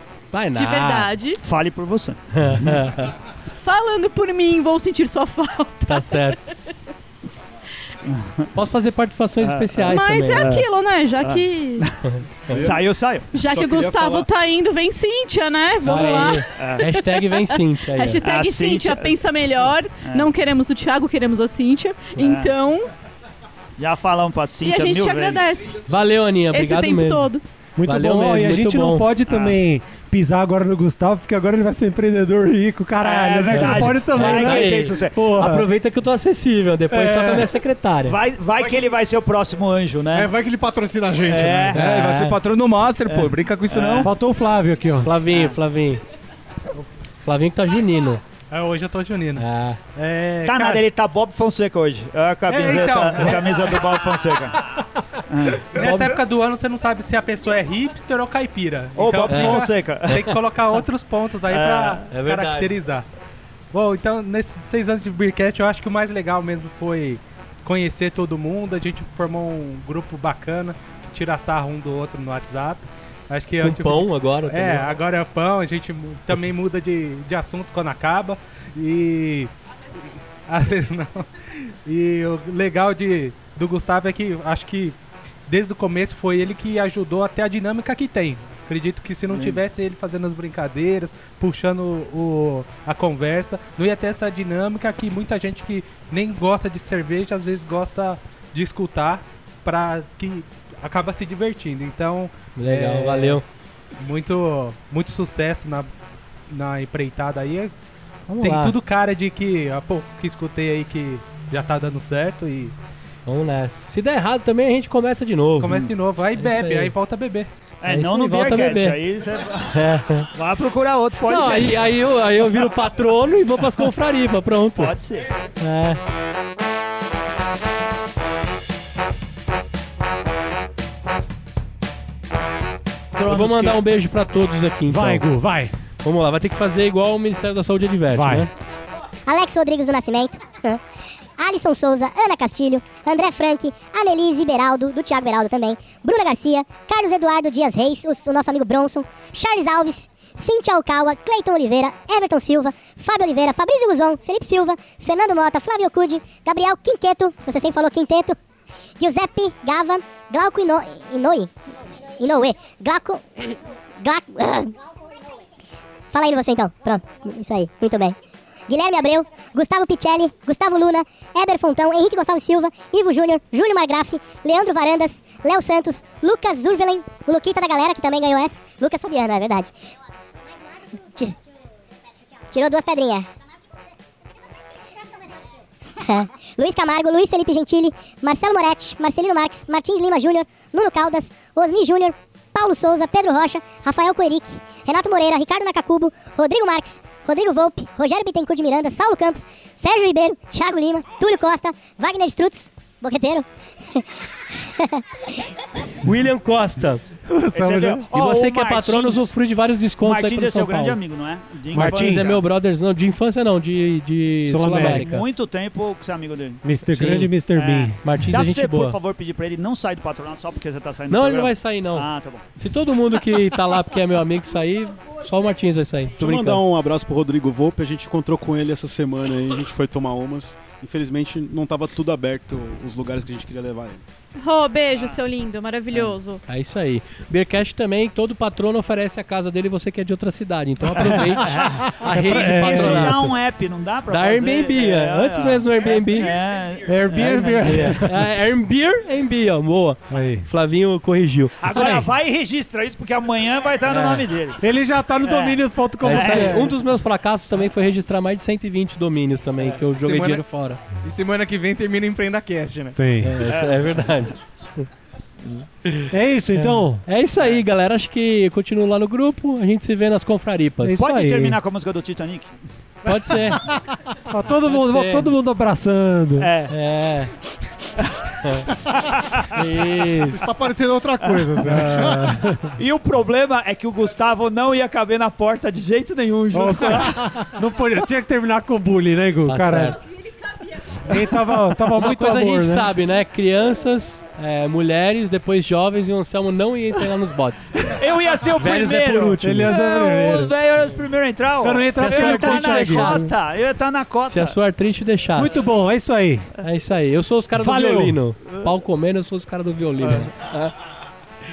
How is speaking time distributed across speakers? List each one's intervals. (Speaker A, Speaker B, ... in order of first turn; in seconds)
Speaker A: 0.3-1.1, 2.4-3.1, 5.9-6.4, 8.6-10.5, 15.8-18.2, 25.8-27.3, 27.9-29.1, 33.5-38.2, 41.7-42.4, 45.0-46.0, 47.2-48.2, 49.4-49.8, 55.8-56.1, 59.3-60.3, 62.1-62.8, 73.6-74.9, 102.6-103.5, 108.3-108.8, 113.3-115.8, 116.4-116.9, 117.9-119.0, 119.7-120.3, 121.3-124.9, 125.6-126.0, 133.2-135.3, 136.0-138.5, 206.0-207.1, 208.1-211.0, 211.8-215.2, 216.9-217.3, 218.0-219.0, 221.1-226.6, 235.9-243.3, 244.1-246.4, 247.1-252.0, 253.9-254.2, 256.0-260.8, 263.2-264.9, 265.9-271.1, 273.1-273.7, 274.6-275.3, 276.7-277.3, 279.5-280.5, 289.5-290.0, 291.9-297.9, 298.6-299.8, 301.9-303.3, 304.3-305.7, 306.6-310.8
Speaker B: 0.5-1.4, 3.6-6.5, 9.8-11.9, 13.3-22.9, 24.6-25.8, 26.5-27.4, 234.4-236.4
Speaker C: 1.4-2.8, 8.1-8.5, 9.4-10.7, 11.2-12.0, 12.6-13.3, 16.6-16.9, 18.2-19.2, 20.0-20.3, 22.2-22.5, 23.8-25.7, 29.3-29.6, 33.0-35.2, 37.0-37.5, 38.1-40.3, 41.3-41.8, 43.1-44.1, 45.3-45.6, 50.4-54.6, 55.3-56.1, 59.0-60.3, 61.5-62.0, 117.8-122.7, 124.8-125.3, 133.2-133.8, 207.5-209.3, 210.0-212.4, 214.7-216.6, 217.5-222.4, 234.9-235.2, 241.0-248.0, 251.6-254.6, 255.2-256.7, 263.5-264.0, 271.0-272.5, 276.4-276.7, 278.0-278.4, 278.9-279.5, 282.8-287.2, 297.8-304.6, 310.0-310.3
Speaker D: 12.5-12.8, 13.4-14.3, 226.2-234.0
Speaker E: 27.8-35.7, 44.0-45.1, 134.9-135.7, 138.1-138.5, 207.3-208.1, 211.7-212.3, 214.4-215.1, 216.6-218.0, 242.1-243.3, 246.9-248.2, 250.1-250.5, 251.7-252.1, 254.6-256.7, 262.9-263.4, 266.1-267.0, 270.8-271.6, 274.3-276.5, 281.6-282.7, 286.5-290.0, 291.1-292.9, 299.4-300.5, 301.6-303.3, 305.4-306.5, 307.6-308.2
Speaker F: 38.6-38.9, 40.1-41.8, 280.2-282.4, 287.2-287.4
Speaker G: 41.7-44.1
Speaker H: 48.5-50.8, 52.5-54.0, 55.7-63.1, 63.7-79.5, 80.5-85.0, 85.5-103.4, 104.0-105.9, 106.5-107.7, 108.4-112.8, 115.6-117.5
Speaker I: 139.3-140.8, 141.4-158.4, 159.0-164.7, 166.1-168.2, 168.7-179.7, 180.9-181.3, 182.5-183.3, 186.0-205.0
Speaker J: 260.0-260.4, 261.0-263.0